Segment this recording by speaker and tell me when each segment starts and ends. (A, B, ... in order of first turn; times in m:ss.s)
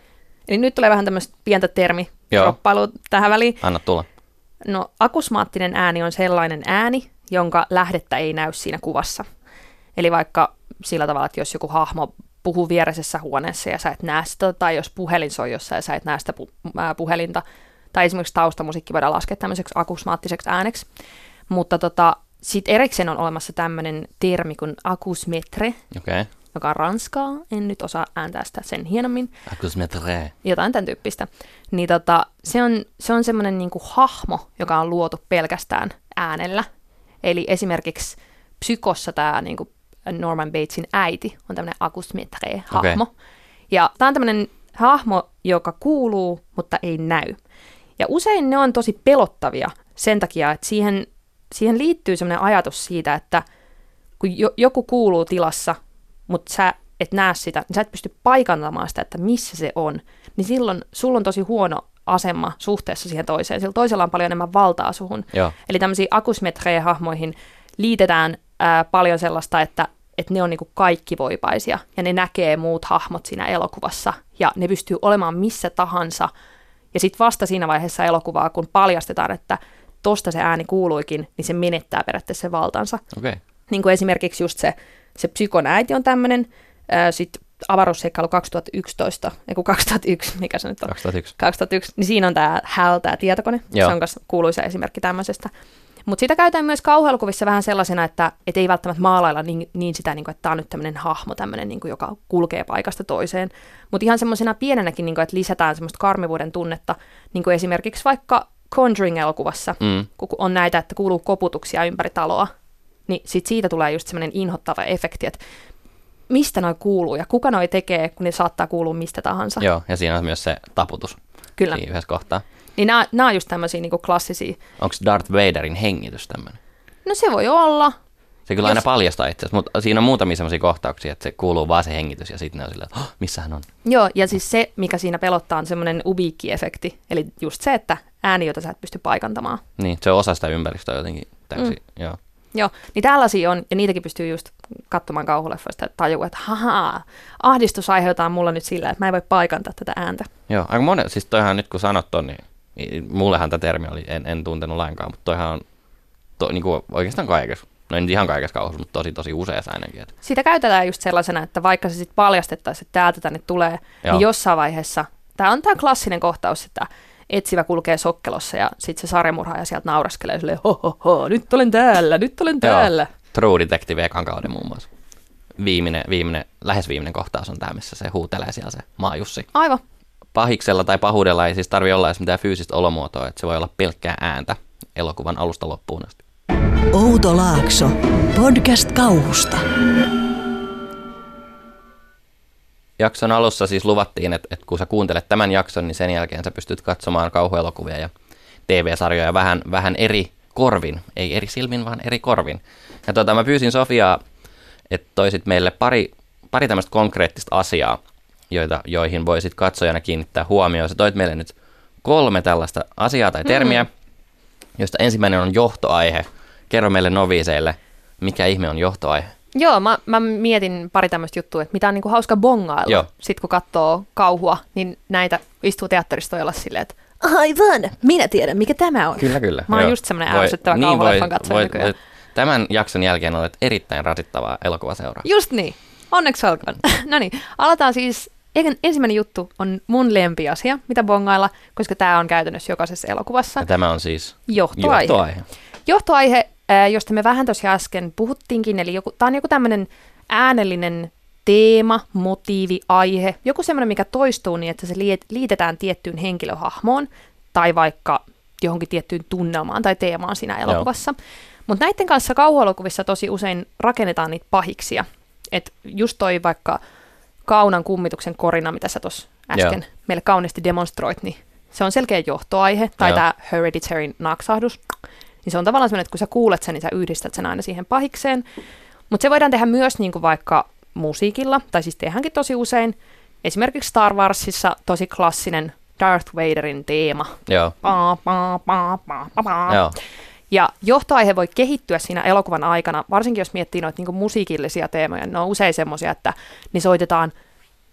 0:00.5-0:03.6 A
0:03.6-0:04.1 B
0:04.6-0:09.3 A
0:10.0-0:20.9 A
0:21.5-0:25.8 A
0:25.9-0:26.3 B
0:26.5-0:29.3 A
0:29.5-0:30.3 B
0:30.4-0:36.7 A
0:37.2-0:43.1 A
0:42.7-0:43.0 B
0:43.7-0:47.4 A
0:48.0-0:53.4 A
0:54.2-1:16.3 A
1:16.9-1:23.0 A
1:23.1-1:23.4 B
1:23.7-1:35.5 A
1:30.9-1:31.3 B
1:36.1-1:52.5 A
1:49.8-1:50.1 B
1:53.1-1:55.4 A
1:56.3-1:59.6 A
1:59.6-2:01.2 B
2:01.7-2:02.4 B
2:02.8-2:04.6 A
2:04.8-2:06.6 B
2:07.0-2:08.0 A
2:08.5-2:13.6 B
2:13.8-2:19.6 A
2:19.8-2:22.2 B
2:22.5-2:30.3 A
2:30.5-2:35.6 B
2:36.4-2:40.1 B
2:40.2-2:53.1 A
2:52.6-2:54.9 B
2:55.6-2:59.5 B
2:59.5-2:59.8 A
3:00.4-3:06.2 B
3:06.9-3:09.6 C
3:13.0-3:18.1 B
3:18.7-3:24.2 B
3:24.9-3:28.0 B
3:28.5-3:33.9 B
3:34.8-3:39.3 B
3:39.5-3:51.9 A
3:49.2-3:55.2 B
3:55.2-4:03.6 A
4:03.6-4:05.4 B
4:04.5-4:05.2 A
4:05.9-4:21.2 A
4:21.7-4:26.8 A
4:27.4-4:34.8 A
4:35.4-4:38.4 A
4:39.1-4:49.8 A
4:47.5-4:47.7 B
4:49.7-4:50.0 B
4:50.5-4:57.3 A